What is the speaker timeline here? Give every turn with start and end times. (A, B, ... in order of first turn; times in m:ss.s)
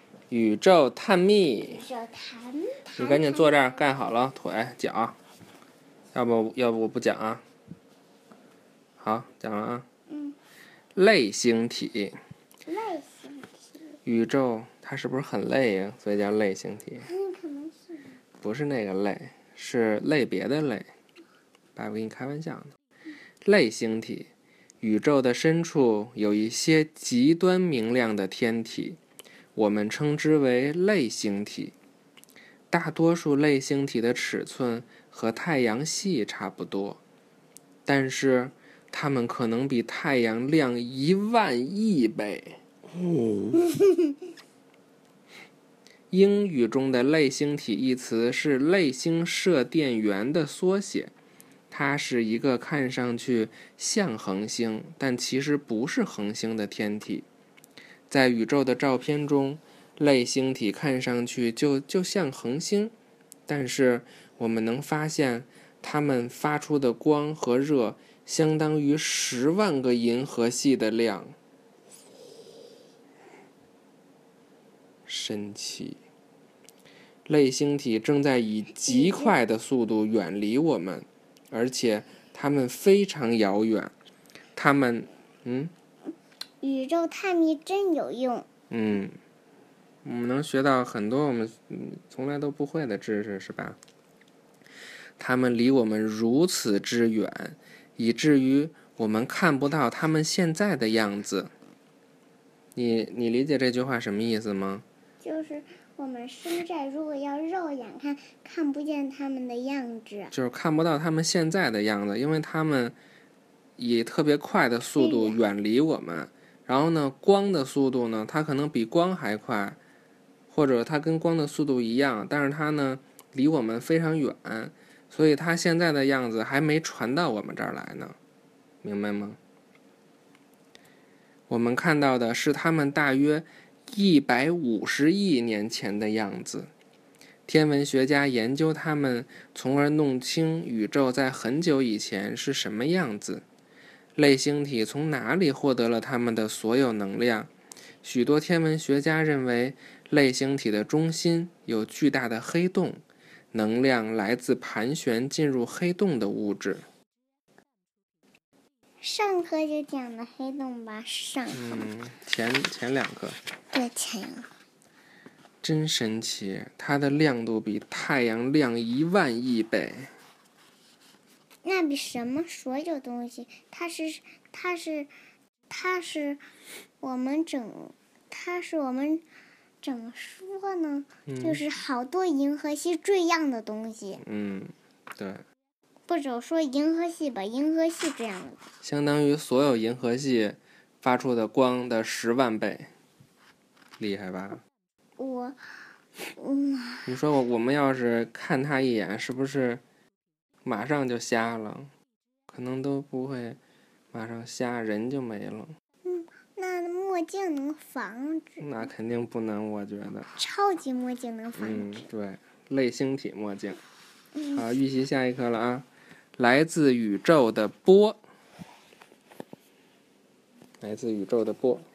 0:00.3-0:01.8 A
0:01.6-0:04.0 B
0:03.0-0:05.2 A
0:06.1-0:07.4 A
0:09.0-0:09.8 A
0:10.1-0:10.4 B
0:11.0-0:12.2 A
0:12.7-0:13.9 B
0:14.0-0:17.1 A
0:17.0-0:18.2 B
0:18.4-0:20.9 A
0:21.8-0:22.7 A
0:23.4-0:24.3 A
0:24.8-0:29.0 A
0:29.6-0:31.8 A
0:32.7-0:37.0 A
0:37.9-0:42.6 A
0:46.1-0:51.1 A
0:51.7-0:57.3 A
0:58.1-1:02.9 A
1:03.5-1:11.4 A
1:15.1-1:16.0 A
1:17.3-1:23.9 A
1:18.9-1:19.4 B
1:24.6-1:25.7 A
1:26.6-1:28.5 B
1:28.7-1:29.2 A
1:30.0-1:33.8 A
1:35.2-1:41.5 A
1:42.8-1:44.8 A
1:45.2-1:50.3 B
1:50.3-1:53.0 A
1:53.8-1:59.8 A
1:55.0-1:55.4 B
2:00.5-2:08.2 A
2:08.8-2:09.4 A
2:11.5-2:16.7 A
2:17.5-2:23.4 A
2:24.2-2:27.5 A
2:28.0-2:33.0 A
2:33.5-2:36.8 A
2:39.0-2:41.9 B
2:41.5-2:43.4 A
2:43.7-2:44.5 B
2:45.6-2:50.1 A
2:51.6-2:55.1 B
2:55.7-2:56.4 B
2:57.0-2:59.2 B
2:59.8-3:04.2 B
3:01.3-3:01.6 A
3:04.2-3:05.4 A
3:06.1-3:08.7 B
3:08.8-3:12.9 A
3:14.0-3:14.6 A
3:15.2-3:15.6 B
3:16.3-3:17.1 B
3:17.1-3:19.8 A
3:20.6-3:21.9 A
3:22.5-3:23.6 A
3:24.1-3:25.7 A
3:26.0-3:28.8 B
3:28.6-3:30.3 A
3:30.4-3:32.1 B
3:31.6-3:33.8 A
3:34.4-3:34.7 B
3:34.5-3:35.9 A
3:36.4-3:38.2 A
3:40.8-3:41.9 A